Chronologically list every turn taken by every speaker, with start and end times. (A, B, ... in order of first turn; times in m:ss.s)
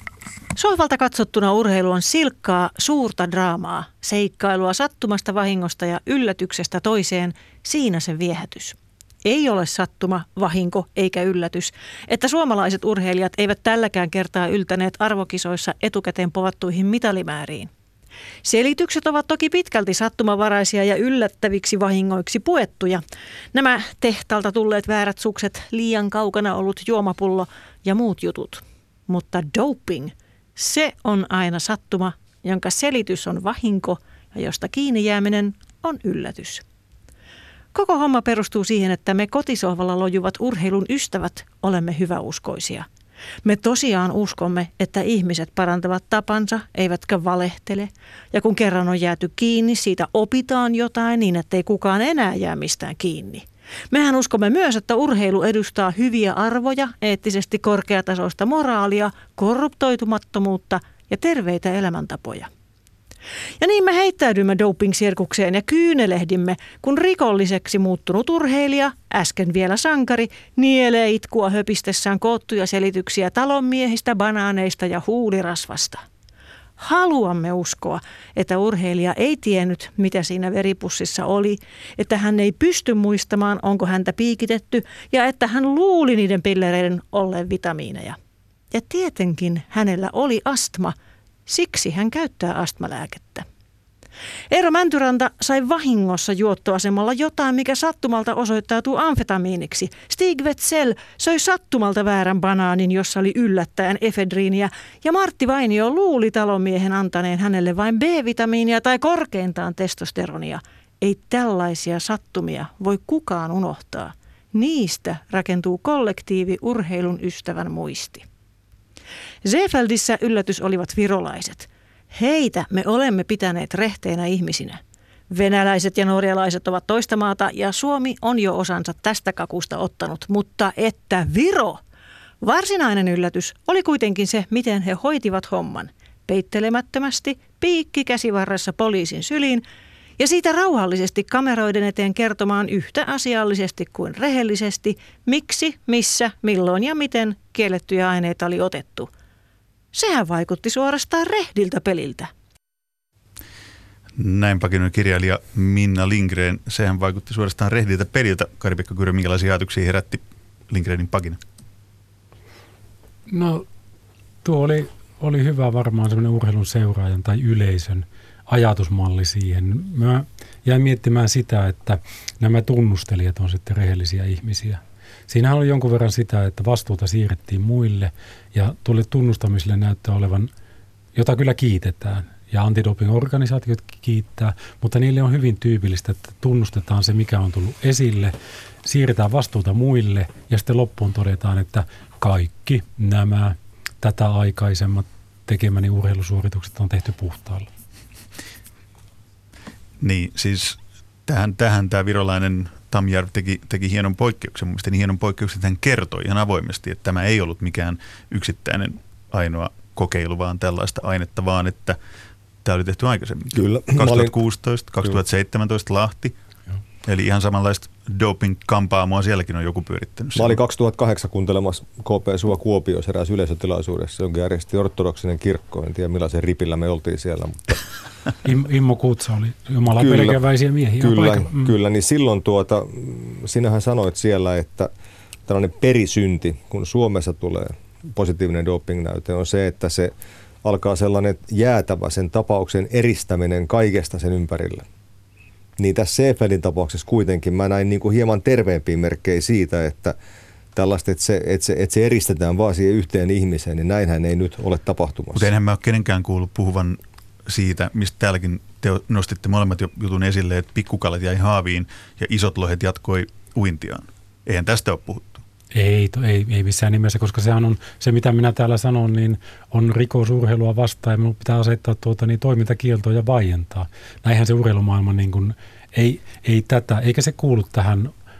0:00.6-0:17.7 A
0:18.4-0:23.0 A
0:23.5-0:36.6 A
0:37.7-0:42.8 A
0:43.4-1:02.5 A
1:03.6-1:16.0 A
1:16.8-1:28.2 A
1:28.7-1:30.9 A
1:31.5-1:33.4 A
1:34.5-1:58.2 A
1:59.4-2:04.8 A
2:05.3-2:11.8 A
2:12.4-2:19.6 A
2:20.2-2:29.1 A
2:29.9-2:32.3 A
2:34.2-2:41.4 B
2:43.3-2:43.6 C
2:44.4-3:00.5 C
3:01.1-3:17.7 C
3:20.0-3:32.0 B
3:32.6-3:36.3 B
3:33.5-3:34.3 D
3:37.0-3:40.6 B
3:40.4-3:47.8 D
3:48.4-3:51.7 C
3:49.9-3:50.4 D
3:51.0-3:54.9 D
3:55.5-4:04.8 D
4:05.8-4:10.2 D
4:10.7-4:15.5 D
4:15.3-4:25.4 B
4:25.7-4:38.1 C